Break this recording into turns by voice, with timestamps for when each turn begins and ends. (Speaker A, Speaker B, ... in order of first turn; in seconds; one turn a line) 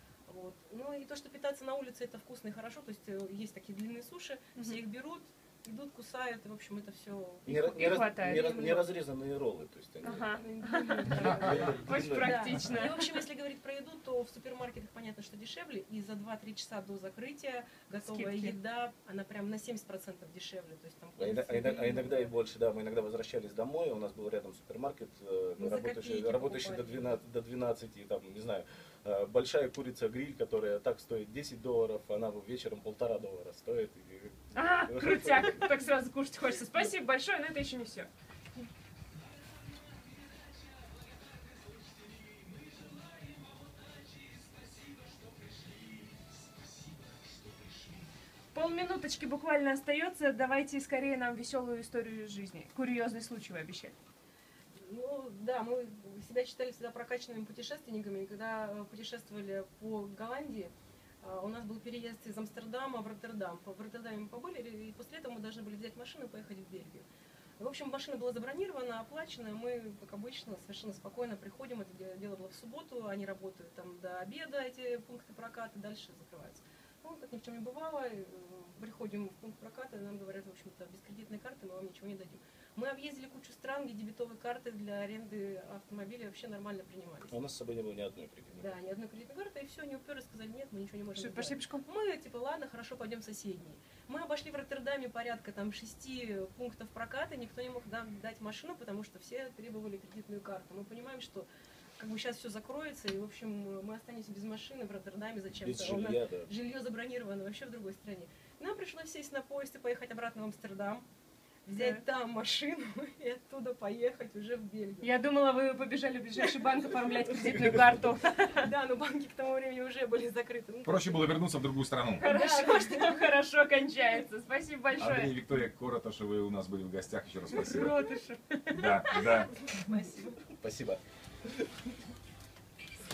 Speaker A: 0.3-8.6
Speaker B: 7.5-10.3
Speaker C: 7.5-8.9
Speaker C: 10.0-13.2
Speaker A: 10.3-22.3
Speaker B: 11.1-12.6
Speaker C: 18.0-18.5
Speaker B: 21.2-35.6
Speaker A: 25.6-27.1
Speaker C: 34.5-38.1
Speaker C: 48.5-53.9
Speaker A: 54.8-67.0
Speaker A: 67.6-87.3
Speaker B: 87.3-88.8
Speaker A: 88.5-101.5
Speaker C: 91.1-91.8
Speaker A: 102.0-111.0
Speaker B: 105.6-106.5
Speaker C: 111.7-112.0
Speaker A: 111.7-115.1
Speaker C: 115.0-118.7
Speaker A: 118.5-121.4
Speaker D: 120.8-122.3
Speaker A: 122.2-123.2
Speaker C: 122.2-125.4
Speaker D: 125.0-128.0
Speaker C: 127.5-129.9
Speaker D: 128.7-129.5
Speaker A: 129.7-130.4
Speaker B: 130.6-131.7